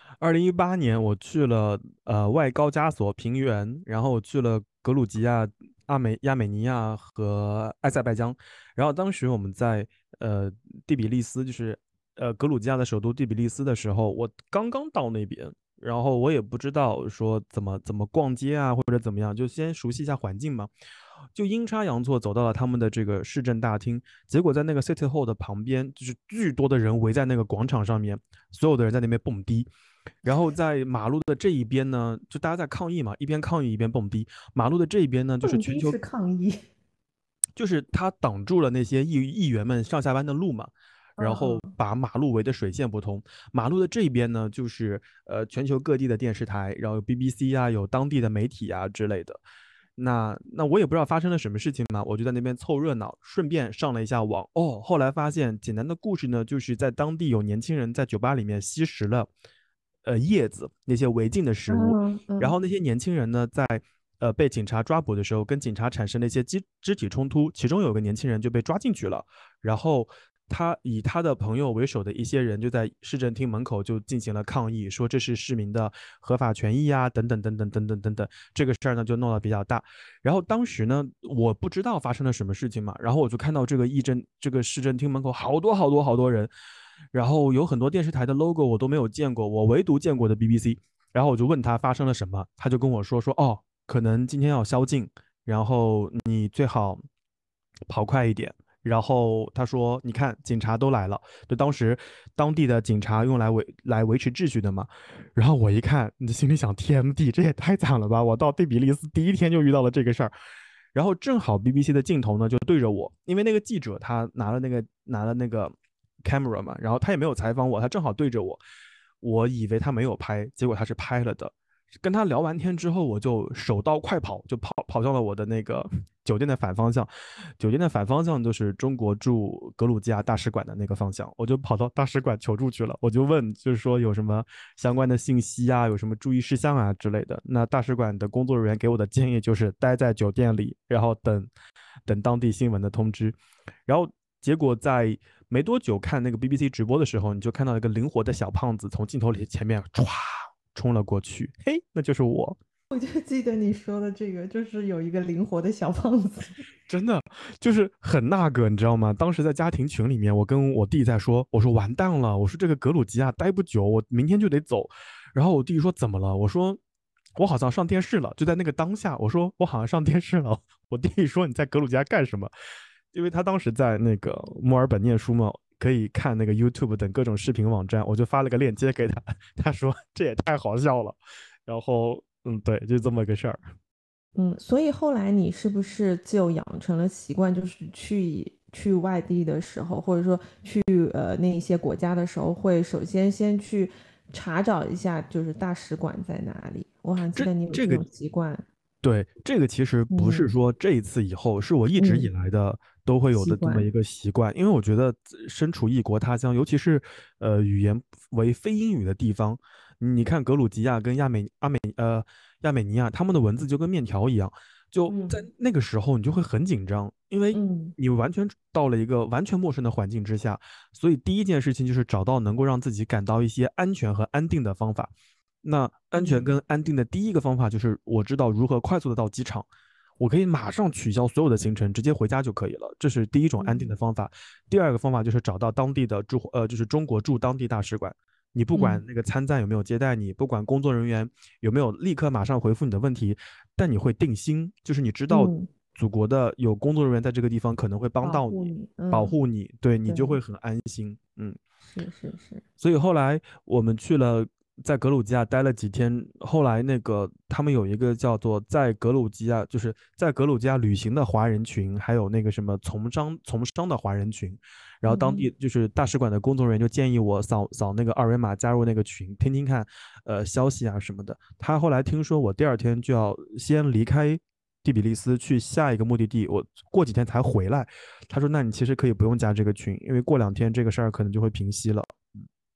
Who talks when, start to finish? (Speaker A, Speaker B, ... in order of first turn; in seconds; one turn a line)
Speaker A: 0.2-20.7
Speaker A: 21.4-29.7
Speaker A: 30.2-36.0
Speaker B: 35.4-36.6
Speaker A: 37.6-49.4
Speaker B: 41.2-41.7
Speaker A: 50.0-59.3
Speaker A: 60.0-86.5
Speaker B: 61.7-62.6
Speaker A: 87.1-97.0
Speaker A: 97.9-110.3
Speaker A: 110.9-118.6
Speaker A: 119.2-141.5
Speaker A: 142.1-152.6
Speaker B: 152.9-156.7
Speaker A: 156.9-166.8
Speaker A: 167.4-172.5
Speaker A: 173.1-183.6
Speaker B: 184.4-198.7
Speaker A: 197.4-198.1
Speaker A: 199.0-225.1
Speaker B: 200.1-200.5
Speaker B: 202.0-202.3
Speaker B: 203.3-203.9
Speaker B: 215.1-215.4
Speaker B: 217.5-217.9
Speaker A: 225.6-229.7
Speaker B: 226.2-226.5
Speaker A: 230.2-251.6
Speaker B: 233.6-233.9
Speaker B: 238.8-239.0
Speaker B: 245.3-245.7
Speaker B: 248.2-249.4
Speaker B: 250.1-250.4
Speaker B: 251.8-252.6
Speaker A: 252.8-282.4
Speaker B: 265.1-265.5